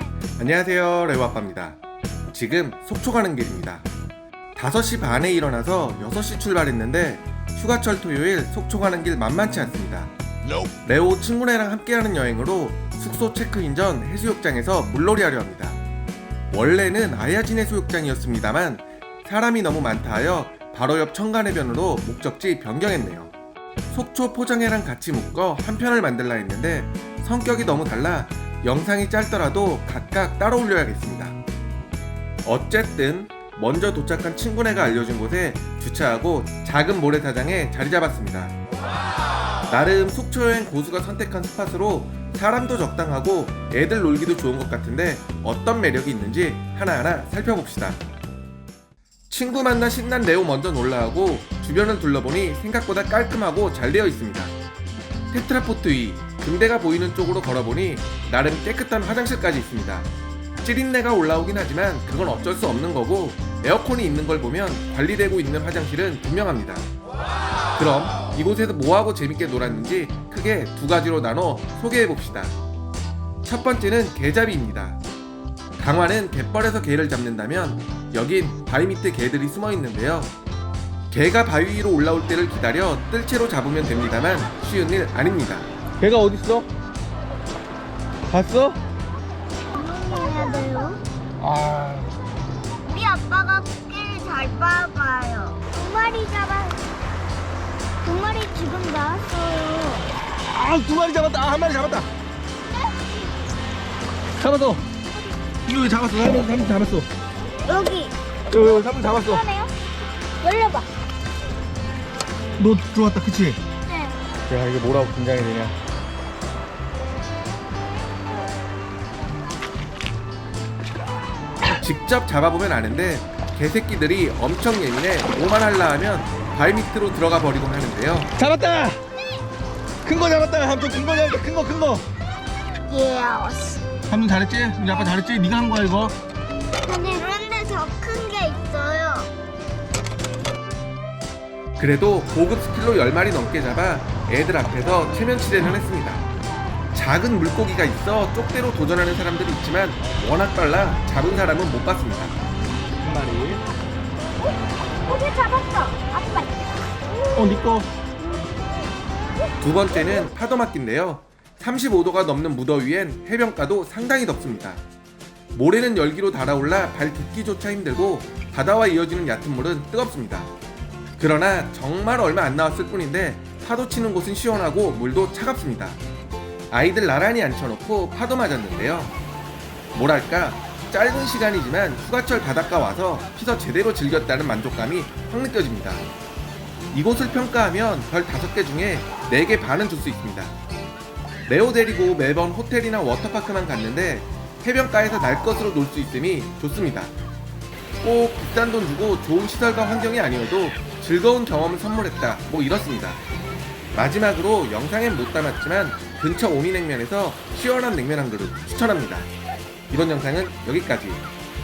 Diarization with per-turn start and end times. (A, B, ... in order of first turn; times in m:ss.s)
0:00.4-0:01.8 A
0:02.3-0:03.8 A
0:04.5-0:10.1 A
0:10.8-0:15.8 A
0:16.5-0:23.3 A
0:23.9-0:31.4 A
0:32.4-0:38.5 A
0:39.7-0:48.0 A
0:49.3-0:54.5 A
0:55.3-1:00.1 A
1:00.6-1:06.8 A
1:07.8-1:12.5 A
1:13.4-1:15.0 A
1:15.8-1:20.3 A
1:21.1-1:25.7 A
1:26.0-1:26.7 B
1:28.3-1:28.8 B
1:29.7-1:31.0 C
1:31.4-1:32.1 B
1:32.8-1:36.8 C
1:38.0-1:40.1 C
1:40.4-1:42.1 B
1:44.4-1:44.8 B
1:45.6-1:47.1 B
1:47.6-1:49.7 C
1:48.5-1:49.4 B
1:50.4-1:50.9 C
1:52.6-1:53.6 B
1:53.9-1:54.2 C
1:54.5-1:55.7 B
2:01.7-2:08.3 A
2:08.4-2:09.0 B
2:10.0-2:12.0 B
2:12.9-2:13.8 C
2:14.1-2:16.1 B
2:16.8-2:19.3 C
2:21.8-2:26.2 A
2:26.9-2:32.3 A
2:33.0-2:33.6 B
2:35.1-2:36.7 C
2:37.3-2:37.9 B
2:39.6-2:44.8 A
2:45.5-2:50.5 A
2:51.2-2:56.0 A
2:56.7-2:59.1 A
2:59.9-3:06.1 A
3:06.9-3:10.5 A
3:11.5-3:17.1 A
3:18.0-3:23.2 A
3:23.9-3:29.3 A
3:29.9-3:31.2 A